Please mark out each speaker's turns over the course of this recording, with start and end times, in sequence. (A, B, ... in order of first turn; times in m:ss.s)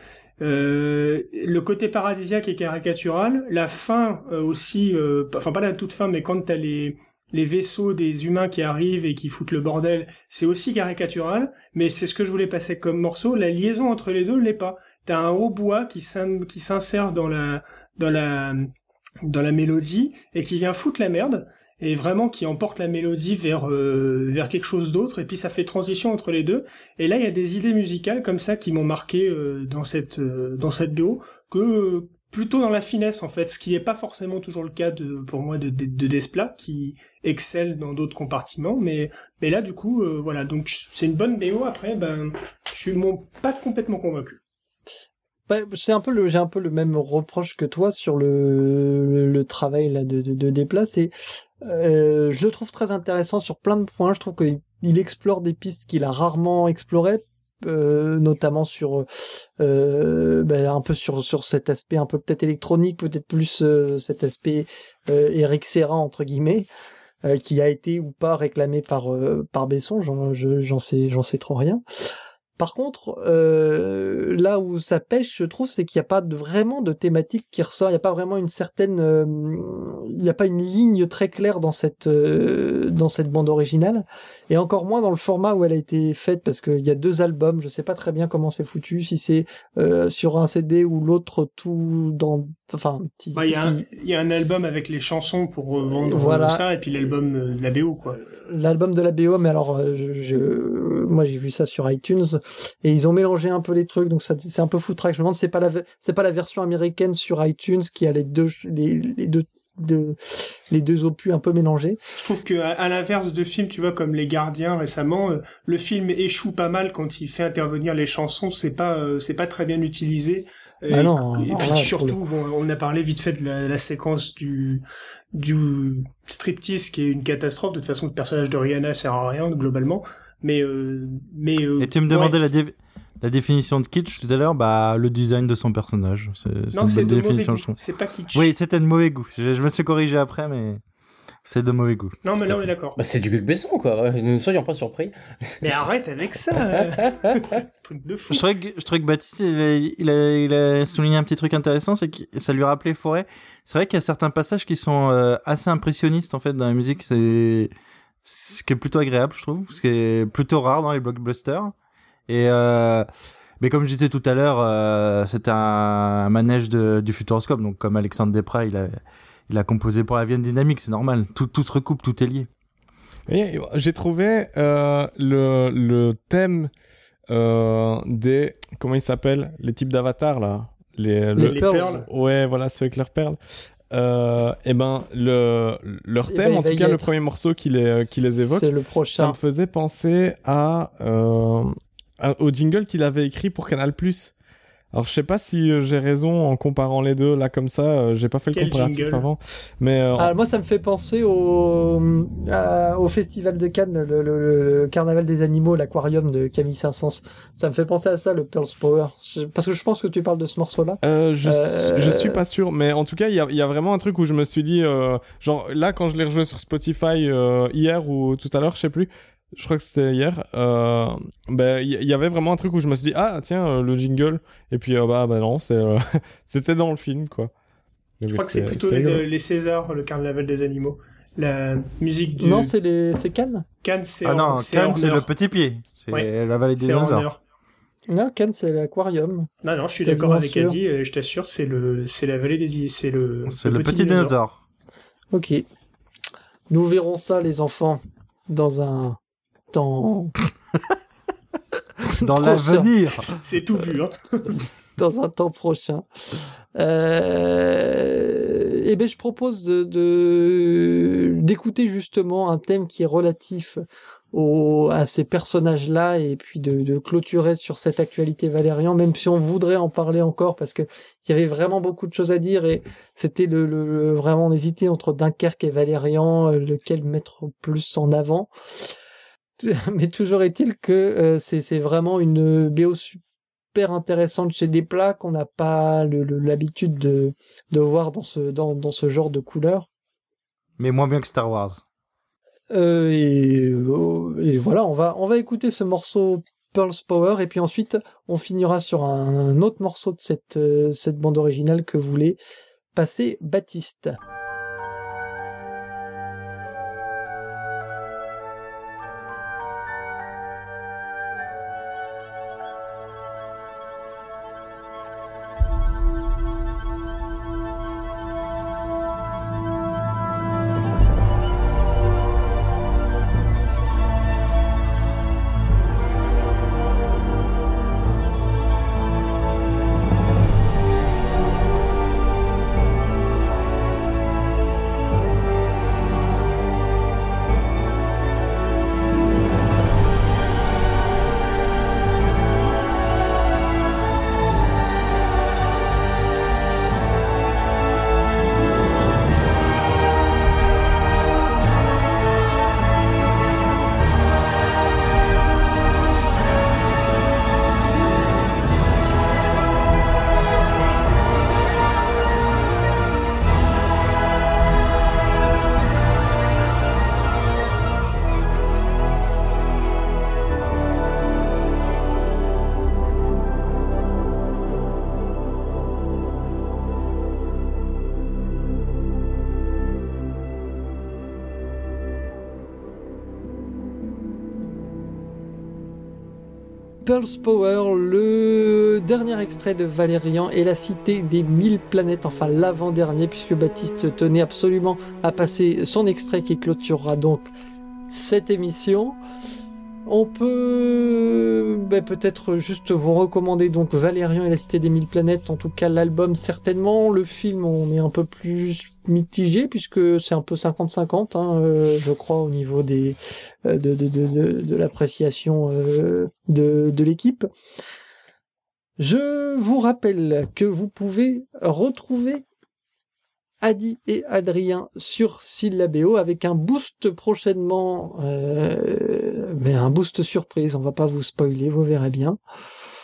0:00.4-0:18.7 A
0:19.2-0:44.4 A
0:45.5-1:06.7 B
1:07.2-1:11.8 B
1:12.6-1:33.8 B
1:33.3-1:38.2 A
1:36.0-1:36.6 B
1:38.2-1:52.0 B
1:52.1-2:12.5 A
2:00.9-2:02.2 B
2:11.8-2:17.8 C
2:16.7-2:18.5 A
2:18.3-2:20.8 C
2:21.4-2:22.6 C
2:22.2-2:23.0 A
2:23.0-2:25.1 D
2:25.6-2:28.4 A
2:28.3-2:37.7 C
2:38.2-2:41.7 C
2:42.3-2:43.1 C
2:43.6-2:52.5 C
2:53.3-2:56.7 E
2:57.3-3:03.4 E
3:01.4-3:02.0 B
3:01.4-3:02.0 A
3:03.9-3:14.3 E
3:06.3-3:07.1 B
3:08.0-3:09.4 B
3:14.9-3:20.3 E
3:18.5-3:19.3 A
3:20.2-3:32.4 B
3:31.0-3:47.5 E
3:48.2-3:49.2 E
3:48.3-3:52.7 A
3:52.4-3:53.6 B
3:53.8-3:55.3 A
3:54.2-3:57.3 C
3:56.1-3:57.4 A
3:58.1-3:59.5 B
3:59.6-4:04.3 A
4:00.0-4:00.8 B
4:03.5-4:04.6 C
4:05.3-4:05.6 B
4:06.7-4:09.2 B
4:09.7-4:10.4 B
4:12.1-4:12.9 B
4:12.1-4:13.3 C
4:13.2-4:14.5 A
4:14.5-4:38.5 B
4:39.6-4:43.2 B
4:43.7-4:49.9 B
4:50.8-4:51.8 C
4:52.7-5:02.4 B
5:02.9-5:04.2 B
6:27.0-6:37.5 B
6:38.1-6:39.2 B
6:40.0-6:57.5 B
6:59.0-7:02.4 B
7:03.6-7:12.4 B